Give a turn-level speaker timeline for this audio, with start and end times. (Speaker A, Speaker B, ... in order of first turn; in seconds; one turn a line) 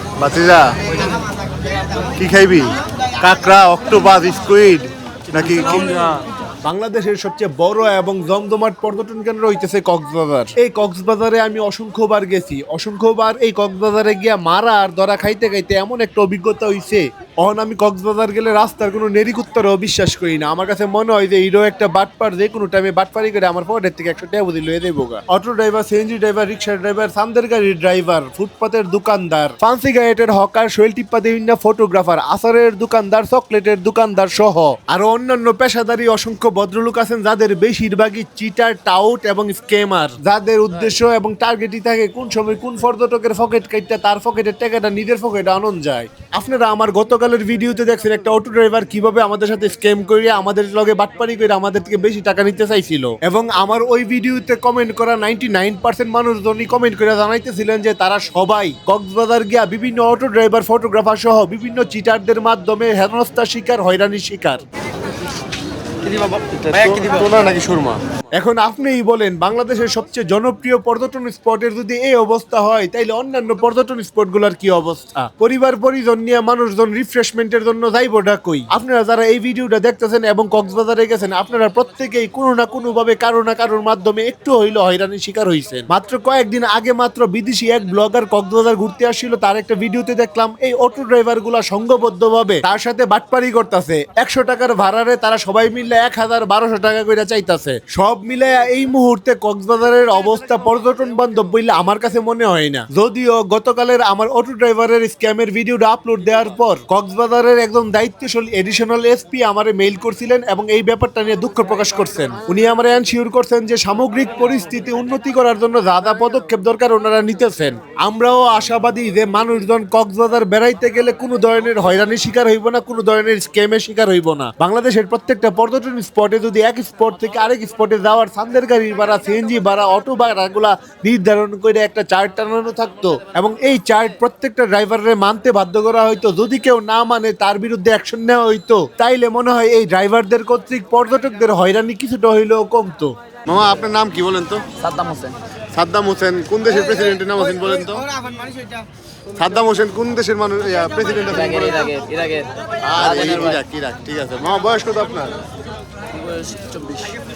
Speaker A: 0.2-0.7
Speaker B: 0.2-0.6
Speaker B: 2.2-2.6
Speaker A: 2.2-2.6
Speaker A: 3.2-6.0
Speaker B: 5.5-6.1
Speaker A: 6.6-64.6
Speaker C: 66.0-67.3
Speaker B: 66.7-68.0
Speaker A: 67.5-143.1
Speaker B: 143.5-144.6
Speaker C: 144.8-145.4
Speaker B: 145.8-148.0
Speaker B: 149.4-151.9
Speaker C: 151.2-153.6
Speaker B: 152.9-155.3
Speaker A: 153.0-154.4
Speaker C: 156.1-157.1